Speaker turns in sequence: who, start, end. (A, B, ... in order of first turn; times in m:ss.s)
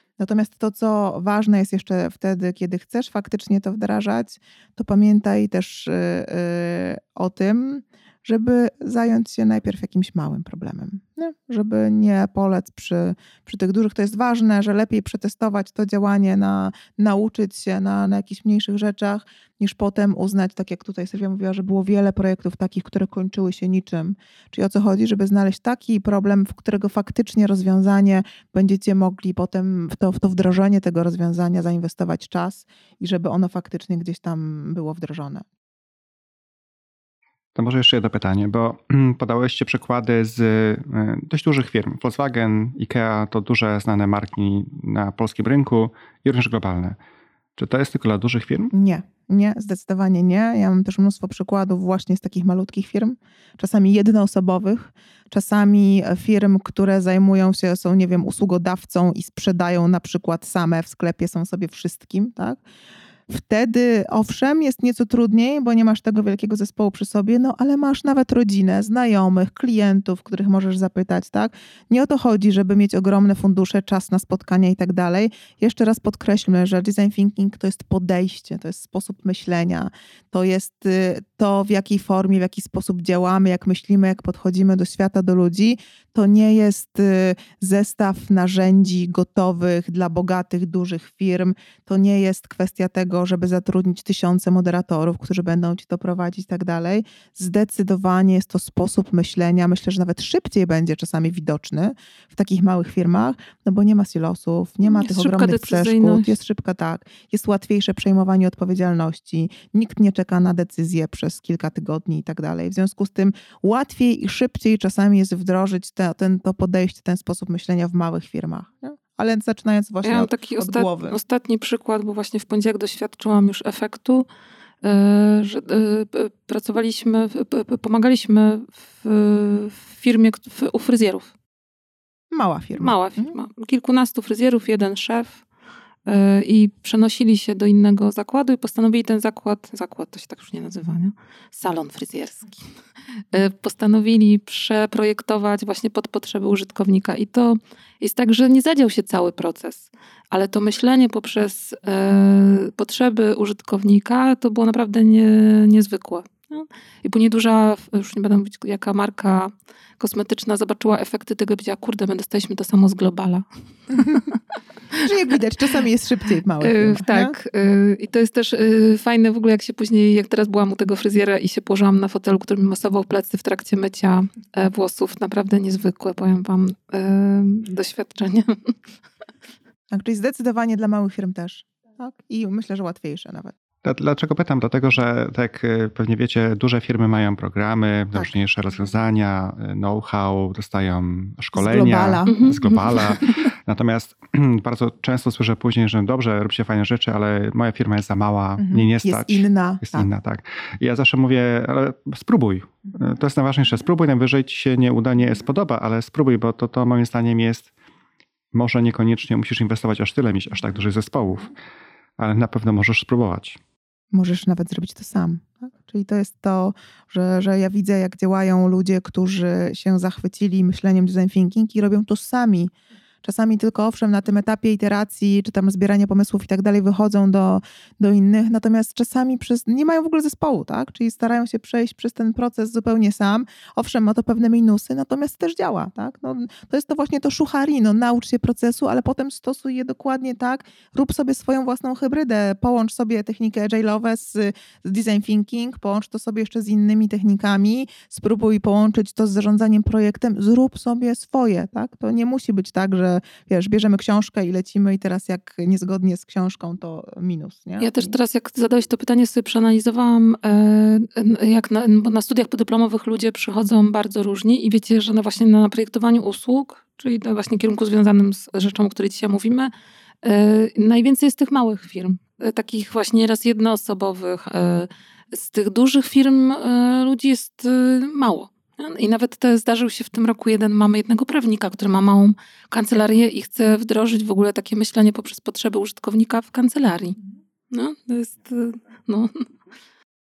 0:00.2-0:35.4 A
0:37.5-0:47.0 B
0:47.6-0:48.7 B
0:48.7-1:02.6 A
1:03.3-2:01.2 A
1:44.8-1:46.3 C
2:00.0-2:04.2 C
2:04.8-2:11.3 C
2:12.3-2:13.3 A
2:12.8-2:15.4 C
2:16.0-2:22.6 C
2:23.3-2:44.4 C
2:45.0-2:47.4 A
2:46.6-2:58.7 C
2:59.9-3:03.5 A
3:03.8-3:27.7 B
3:11.5-3:12.5 A
3:12.2-3:13.4 C
3:18.6-3:20.1 A
3:28.5-3:31.5 B
3:32.2-3:33.6 B
3:34.1-3:42.7 A
3:43.2-4:18.1 A
4:17.8-4:29.7 C
4:30.2-4:47.2 C
4:47.7-4:49.4 C